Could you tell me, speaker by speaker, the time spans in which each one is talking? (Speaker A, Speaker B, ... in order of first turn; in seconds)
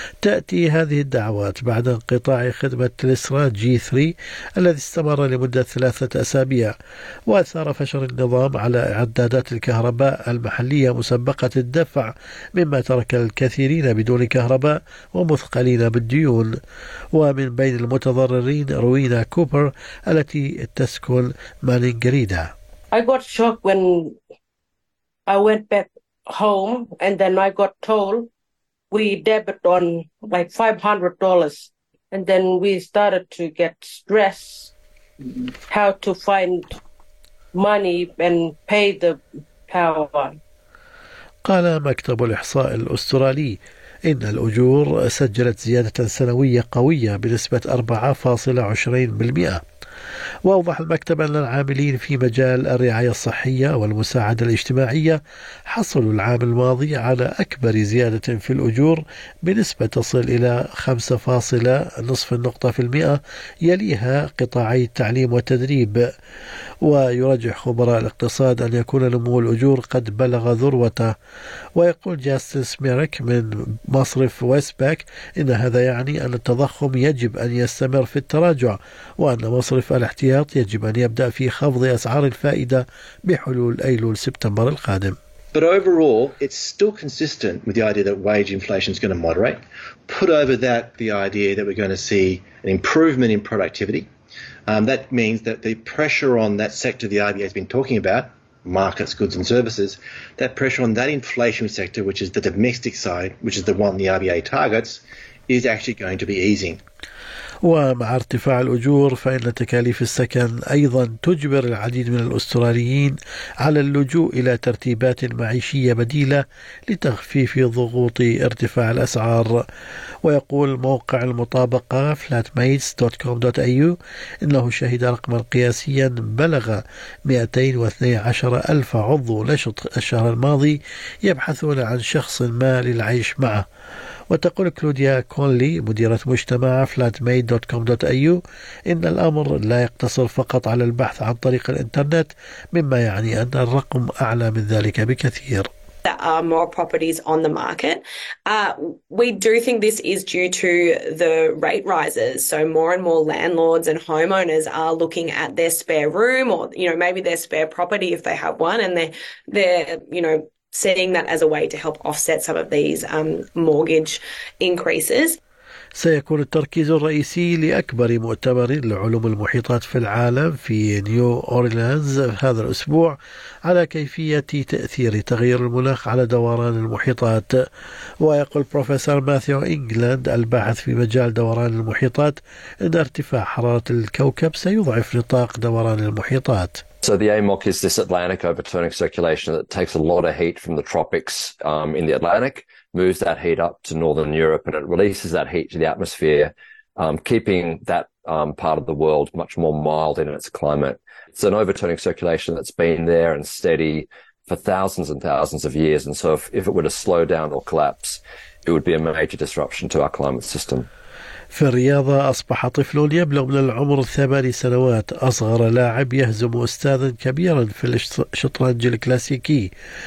Speaker A: 0.2-6.7, 7.3-16.5, 17.1-22.5, 41.4-49.6, 50.5-66.1, 66.8-71.1, 71.8-85.2, 107.6-119.6, 120.2-133.6, 134.3-145.7, 166.0-177.6, 178.2-186.8, 211.5-219.7
Speaker B: 22.9-24.1, 25.3-28.3, 28.9-34.7, 35.7-36.8, 37.5-40.4
Speaker C: 85.5-94.1, 94.7-106.8
Speaker D: 146.0-165.4
Speaker E: 187.0-210.9